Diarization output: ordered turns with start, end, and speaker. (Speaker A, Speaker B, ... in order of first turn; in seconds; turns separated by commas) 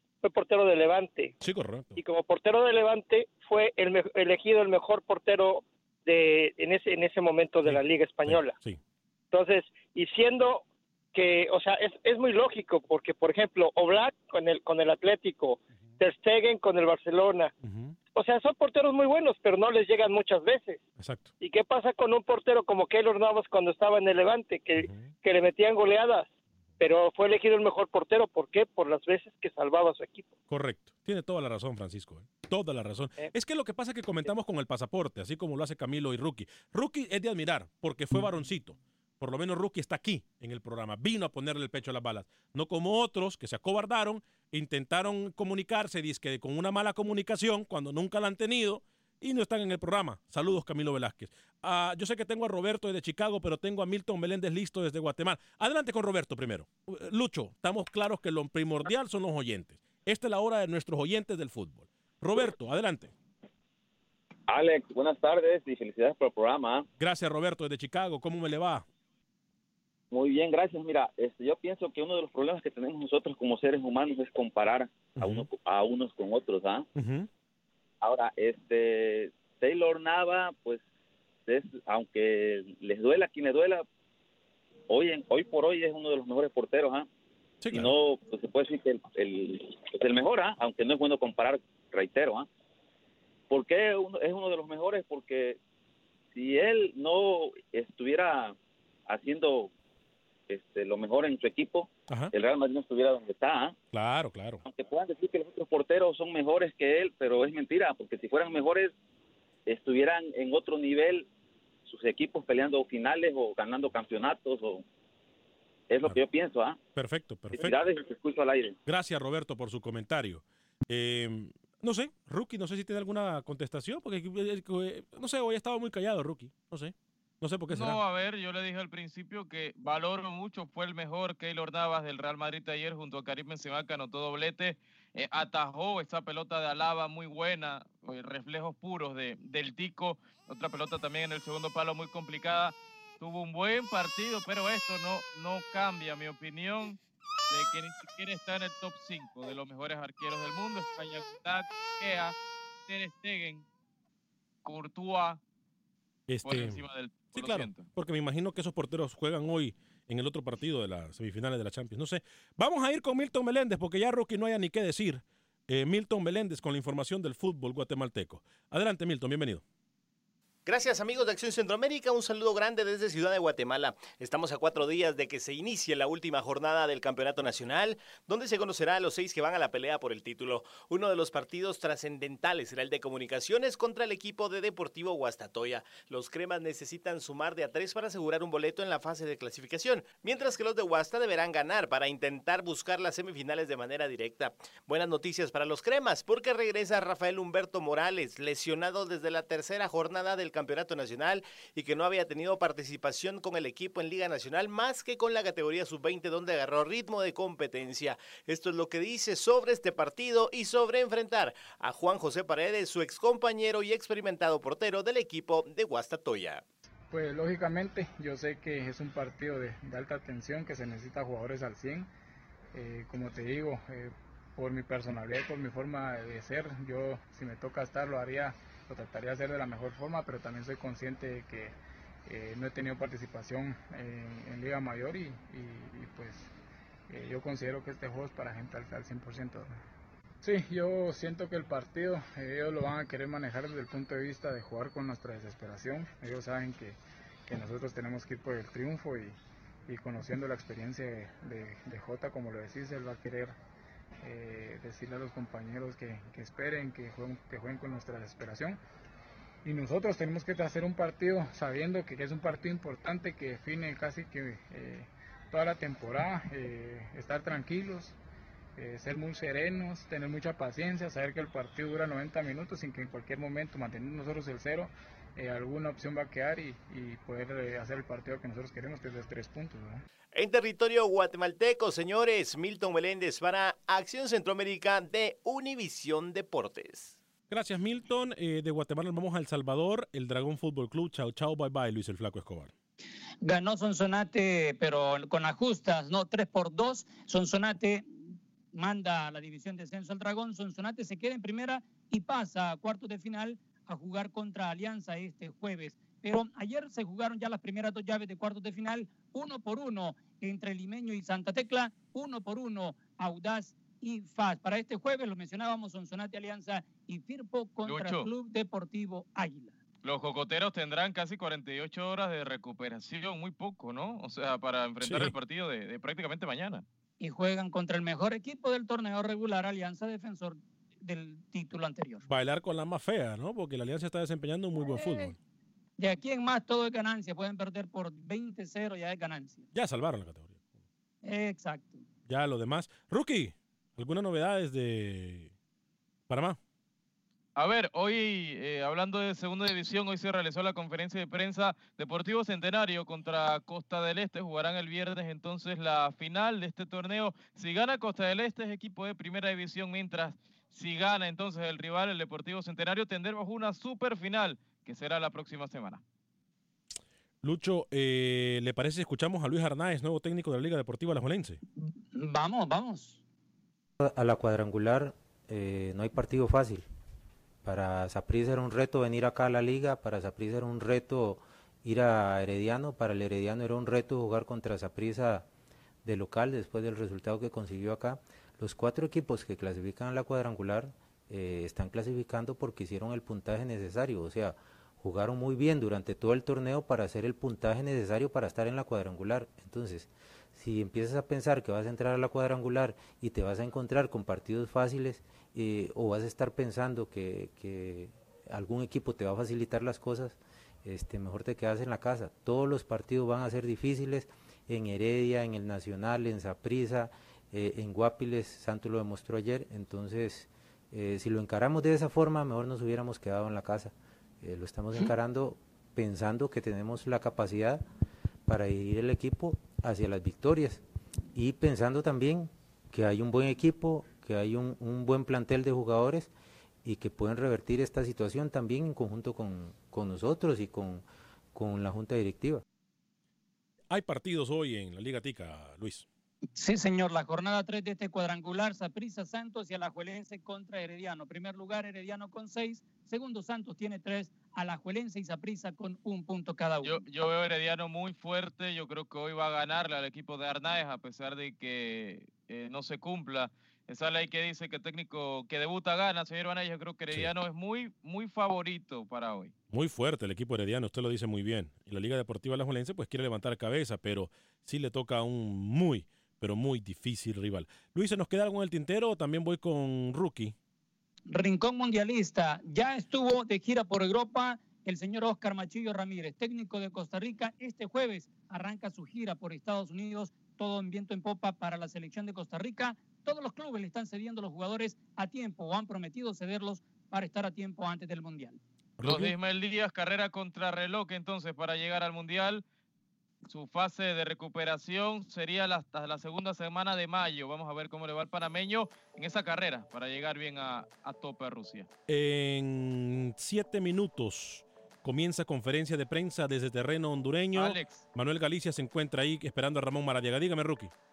Speaker A: 0.2-1.4, Speaker B: 1.4-2.0, Speaker A: 2.0-8.6, Speaker B: 7.6-8.8, Speaker A: 9.3-17.5, Speaker B: 17.6-18.0, Speaker A: 18.1-20.8, Speaker B: 21.0-21.3, Speaker A: 21.4-26.3, Speaker B: 24.8-25.1, Speaker A: 26.8-30.3, Speaker B: 30.5-63.1, Speaker C: 64.5-66.8, Speaker B: 67.0-68.8, Speaker C: 70.1-76.8, Speaker B: 75.2-75.5, Speaker B: 77.0-77.3, Speaker C: 78.0-80.8, Speaker C: 81.5-83.8, Speaker C: 84.9-87.1, Speaker B: 87.6-87.9, Speaker C: 87.7-92.5, Speaker C: 93.5-95.6, Speaker C: 96.3-98.5, Speaker C: 99.1-99.7, Speaker C: 100.5-103.8, Speaker B: 103.9-104.6, Speaker C: 104.6-108.9, Speaker C: 109.7-111.3, Speaker C: 111.8-114.8, Speaker C: 115.9-116.8, Speaker B: 116.9-117.8, Speaker C: 117.5-118.8, Speaker B: 118.8-128.0, Speaker D: 127.7-147.0, Speaker D: 147.5-152.3, Speaker D: 152.9-153.7, Speaker D: 154.6-155.4, Speaker B: 156.3-169.6, Speaker D: 156.4-157.9, Speaker E: 170.7-216.6, Speaker F: 217.1-222.1, Speaker F: 222.7-236.5, Speaker F: 237.1-239.7, Speaker F: 240.4-249.3, Speaker F: 249.9-253.5, Speaker F: 254.2-258.8, Speaker F: 259.6-268.2, Speaker F: 268.8-280.0, Speaker E: 280.3-287.2, Speaker B: 287.5-292.7, Speaker G: 293.4-319.8, Speaker D: 317.8-318.3, Speaker D: 320.0-326.8, Speaker B: 325.0-325.3, Speaker G: 327.2-332.2, Speaker B: 332.2-335.4, Speaker G: 336.0-339.6, Speaker B: 339.7-340.6, Speaker G: 341.2-342.0, Speaker B: 342.3-345.5, Speaker B: 346.3-346.6, Speaker D: 347.6-366.0, Speaker B: 367.4-371.6, Speaker G: 372.1-373.2, Speaker H: 374.0-376.8, Speaker H: 377.6-385.5, Speaker H: 386.0-427.8, Speaker H: 428.5-430.8, Speaker H: 431.3-436.3, Speaker H: 436.8-442.6, Speaker B: 443.9-446.1, Speaker G: 446.6-456.9, Speaker D: 456.8-469.5, Speaker B: 469.7-480.5, Speaker G: 481.3-498.6, Speaker B: 499.0-499.3, Speaker D: 499.0-502.6, Speaker D: 503.4-511.9, Speaker B: 512.1-520.9, Speaker D: 517.5-518.0